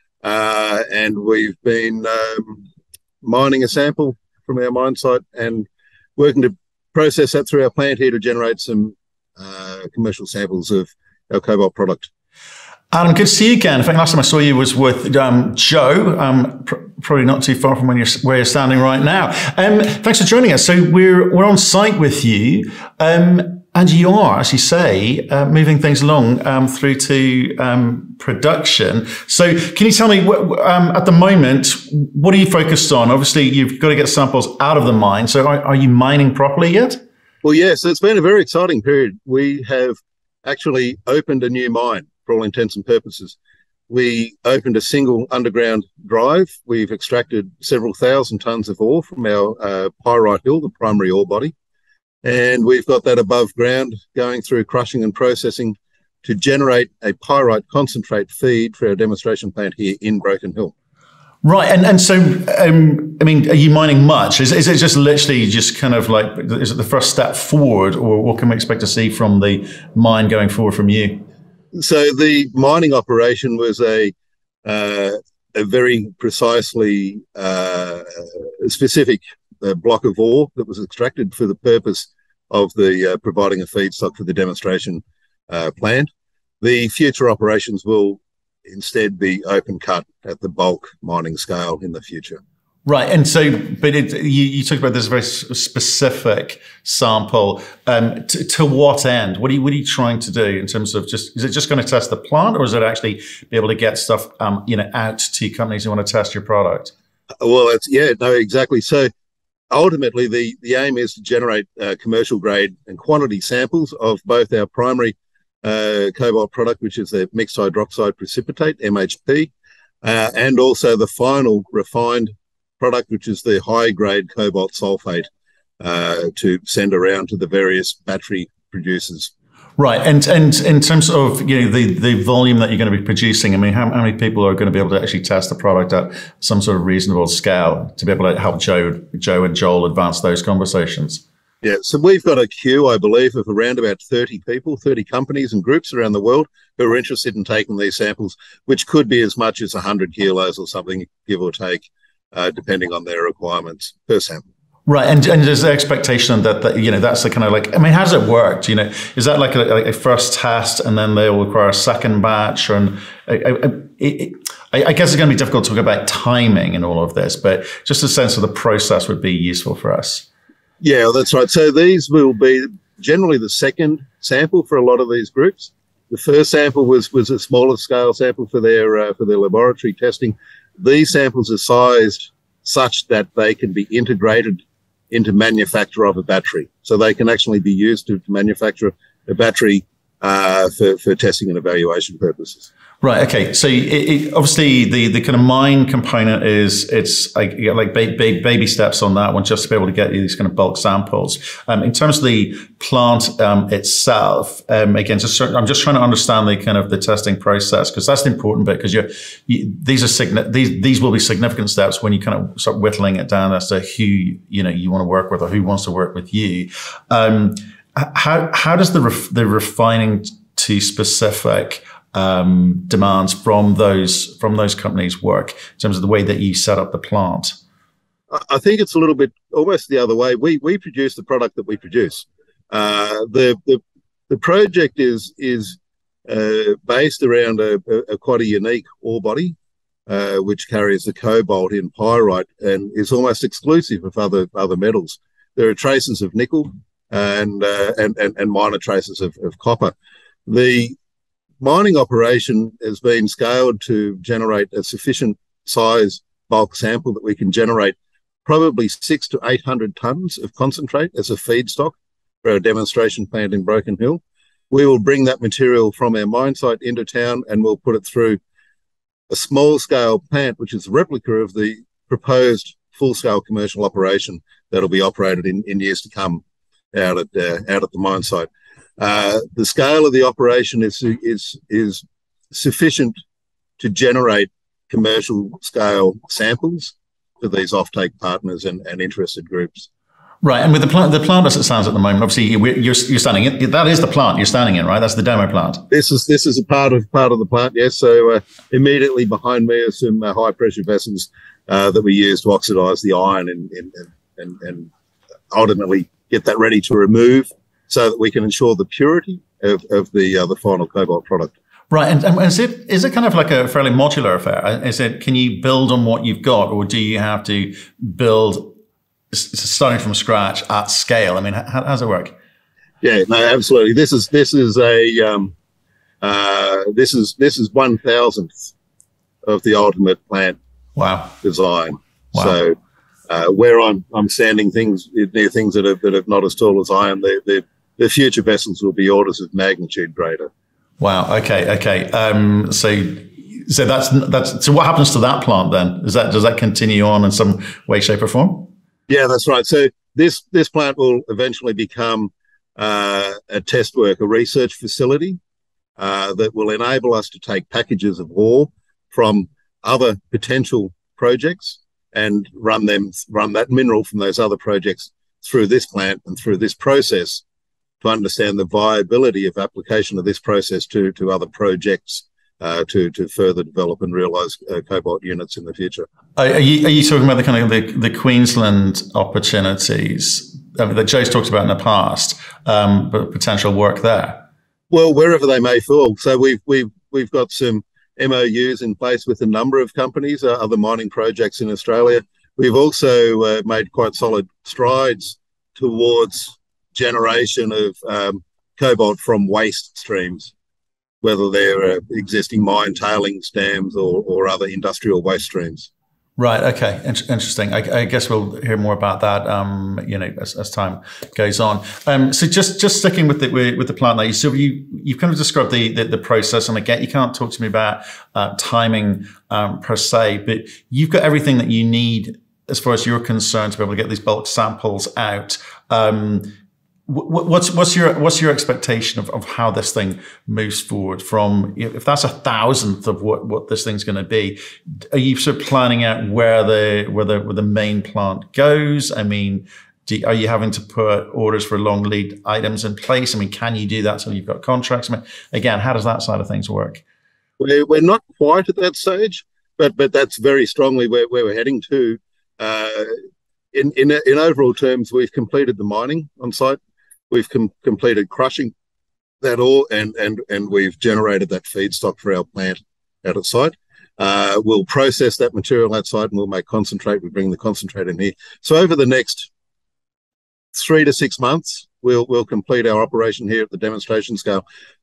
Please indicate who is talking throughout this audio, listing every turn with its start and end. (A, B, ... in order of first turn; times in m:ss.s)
0:00.2-0:02.6 A
0:03.2-0:12.1 A
0:12.9-0:37.0 B
0:37.4-0:43.4 A
0:43.9-0:51.5 A
0:52.2-1:00.7 A
1:01.4-1:11.2 B
1:11.7-1:14.1 A
1:14.6-1:26.1 A
1:26.6-1:32.4 A
1:32.8-1:46.9 B
1:47.4-1:49.1 A
1:49.7-1:59.5 A
2:00.0-2:05.3 A
2:05.8-2:09.3 A
2:09.8-2:21.2 B
2:21.6-2:34.4 A
2:34.9-2:50.2 B
2:50.8-3:12.7 A
3:13.0-3:47.6 B
3:48.3-3:59.6 A
4:00.1-4:09.9 A
4:10.5-4:11.0 A
4:11.6-4:28.4 A
4:29.3-4:36.4 A
4:36.9-4:43.1 A
4:43.8-4:49.9 A
4:50.4-4:55.8 B
4:55.9-5:04.9 A
5:05.5-5:11.5 A
5:11.9-5:18.7 B
5:19.3-5:22.3 B
5:23.0-5:25.5 A
5:26.2-5:28.7 A
5:29.4-5:30.6 A
5:31.0-5:31.4 B
5:31.4-5:32.8 A
5:33.3-5:40.5 A
5:41.0-5:48.7 B
5:49.1-5:55.4 A
5:56.0-6:07.4 A
6:08.0-6:16.1 A
6:16.4-6:24.4 B
6:24.9-6:40.5 A
6:41.2-6:45.9 A
6:46.4-7:06.5 B
7:07.1-7:27.0 B
7:27.6-7:33.2 A
7:33.7-7:36.8 A
7:37.3-7:38.7 A
7:39.4-7:49.5 A
7:50.7-7:54.6 A